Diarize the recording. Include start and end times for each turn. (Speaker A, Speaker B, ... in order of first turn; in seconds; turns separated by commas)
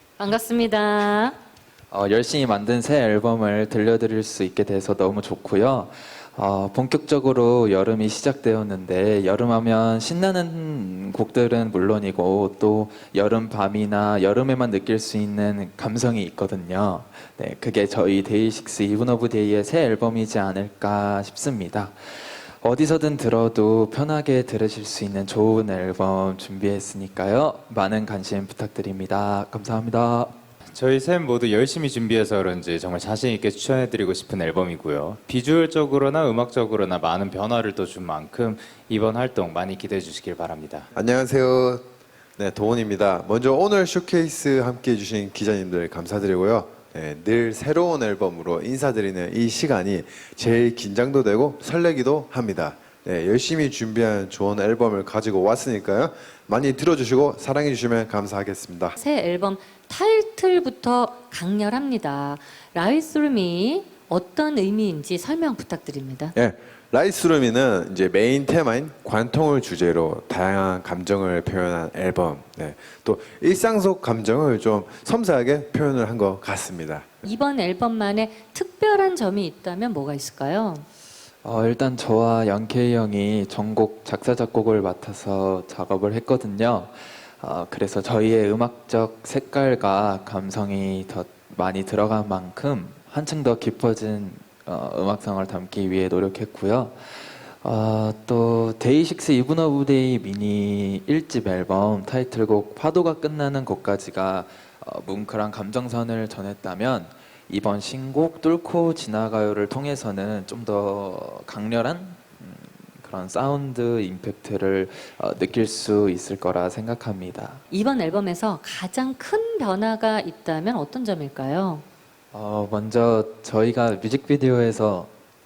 Speaker A: 0.2-1.4, Speaker B: 1.9-30.4, Speaker C: 30.7-40.9, Speaker D: 41.0-59.0, Speaker A: 59.0-66.3, Speaker D: 66.3-77.1, Speaker A: 77.2-80.9, Speaker B: 81.4-117.6, Speaker A: 117.7-121.8, Speaker B: 122.3-125.1